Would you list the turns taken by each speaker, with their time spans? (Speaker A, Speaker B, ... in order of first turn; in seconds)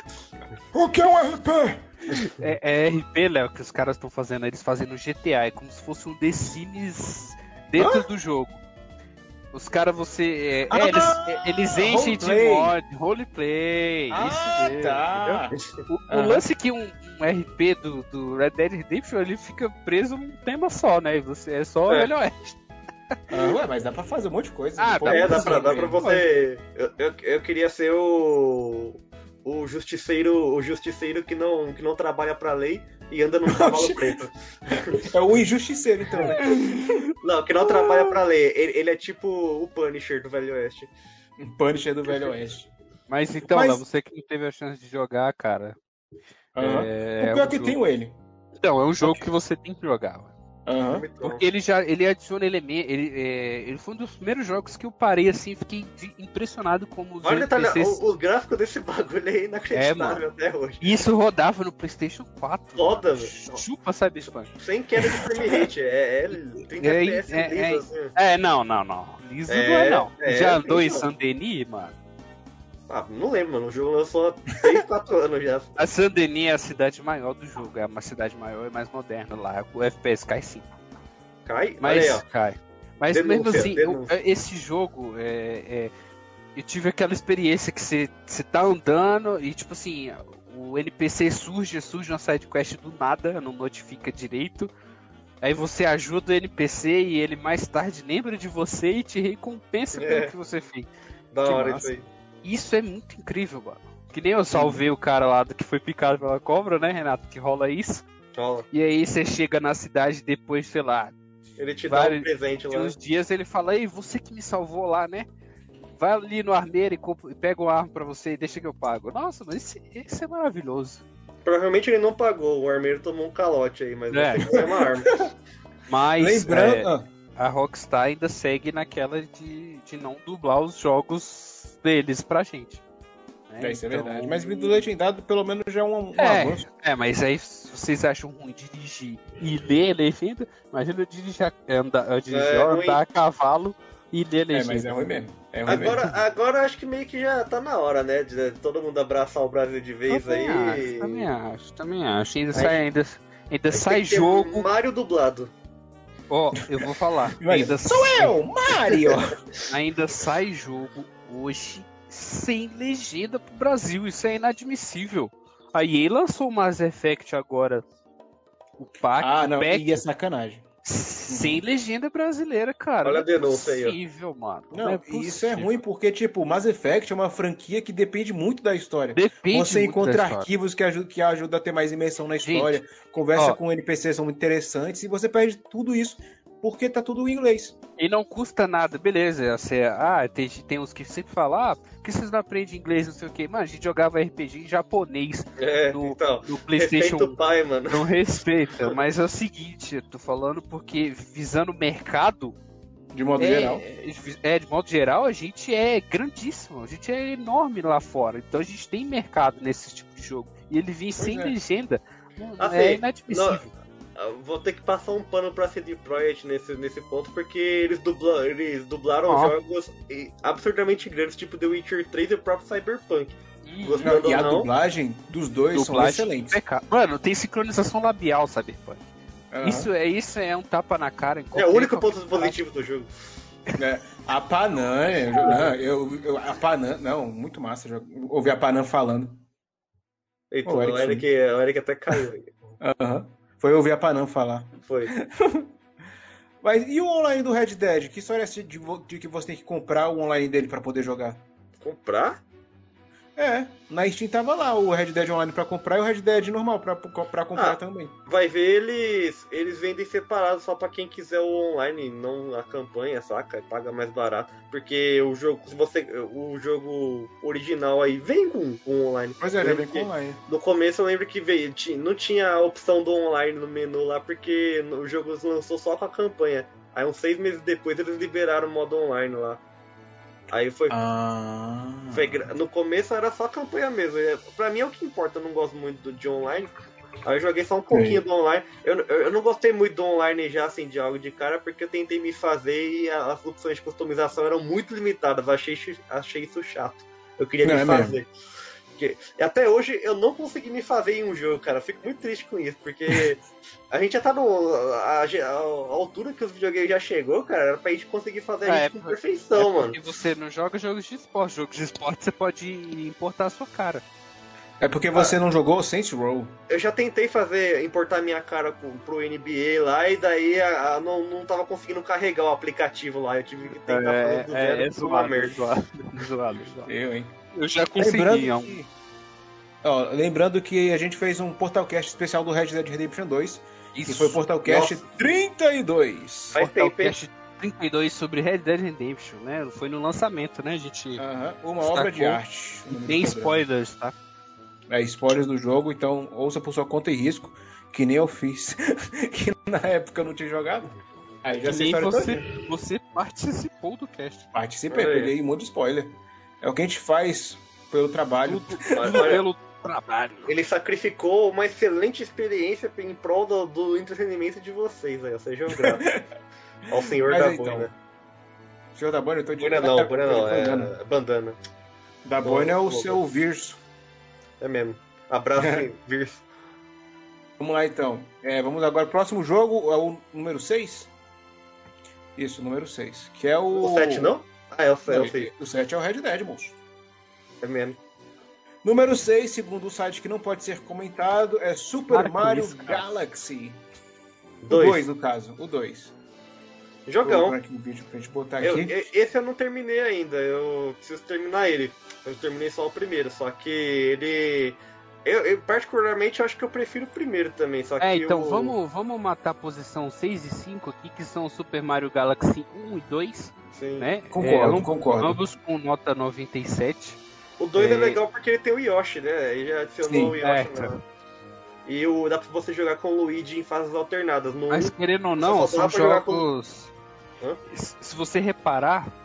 Speaker A: 0.7-1.9, 7.8-8.1, 10.7-12.8, 14.1-15.5, 16.1-16.4, 23.3-25.9, 33.5-34.2, 35.0-38.1, 41.4-42.7, 43.5-43.8, 46.5-48.2, 49.0-49.3, 50.6-51.0, 101.4-101.9, 124.4-125.3, 126.2-127.1, 133.6-136.7, 144.5-146.0, 157.3-159.4, 169.2-170.6, 171.3-171.6, 174.7-187.8, 203.1-203.8, 211.2-211.6, 224.0-226.6, 229.5-229.9, 233.8-239.4, 240.6-241.3, 242.8-245.7, 246.6-251.4, 253.4-258.1, 269.4-270.4, 280.9-282.5, 287.9-288.2, 297.6-298.2, 314.8-316.6, 326.9-327.4, 327.9-328.9, 329.8-336.6, 341.2-343.6, 344.9-352.4, 354.5-359.2, 365.7-366.3, 367.0-367.9, 368.9-370.9, 372.2-373.8, 375.6-375.9, 377.6-381.1, 382.4-384.3, 385.1-386.8, 388.8-393.8, 394.7-396.1, 397.2-399.1, 414.3-415.4, 420.0-420.4
Speaker B: 2.1-8.6, 9.5-22.6, 24.8-26.2, 43.1-45.8, 46.6-47.8, 48.6-50.3, 51.2-58.0, 59.7-60.2, 60.8-64.5, 65.0-65.6, 66.8-71.9, 75.8-80.7, 81.8-85.9, 86.6-94.7, 95.4-100.9, 102.4-108.0, 108.7-111.1, 111.9-115.3, 116.0-121.0, 124.1-124.6, 125.9-132.8, 133.5-134.9, 136.2-145.0, 145.7-146.1, 150.1-154.7, 156.3-158.3, 159.7-167.8, 168.8-170.0, 170.8-175.8, 179.1-180.5, 182.4-182.8, 188.0-197.3, 197.9-202.6, 203.4-213.7, 219.3-219.6, 223.7-224.1, 225.7-229.0, 229.6-232.6, 308.6-314.0, 323.9-326.9, 327.5-328.8, 333.9-334.4, 336.6-341.2, 341.8-344.2, 351.6-354.5, 358.4-360.5, 392.1-393.1, 408.0-417.2, 417.7-418.2, 420.4-421.0, 424.7-426.9, 427.7-429.1
Speaker C: 25.1-35.1, 37.2-40.9, 50.9-51.5, 57.2-60.9, 62.8-63.6, 64.5-68.1, 69.5-71.1, 72.9-75.8, 81.5-82.2, 83.1-84.1, 99.9-100.3, 101.3-102.1, 108.3-108.7, 111.6-112.9, 121.4-125.1, 142.3-143.0, 145.7-151.3, 152.5-152.8, 153.7-155.5, 158.9-159.2, 173.0-174.0, 195.6-198.1, 212.6-224.7, 231.6-233.1, 235.4-235.7, 240.5-242.8, 244.8-245.1, 251.8-252.4, 257.6-279.6, 280.5-281.0, 282.1-286.7, 287.2-298.3, 299.0-310.0, 316.7-325.6, 334.7-335.1, 336.5-337.2, 354.9-355.3, 358.9-359.4, 360.4-366.1, 366.9-367.9, 369.6-371.6, 372.4-373.2, 374.6-376.4, 383.7-385.5, 387.6-388.0, 394.6-395.0, 397.1-397.6, 398.6-408.7, 413.7-414.1, 417.6-421.0, 421.9-426.5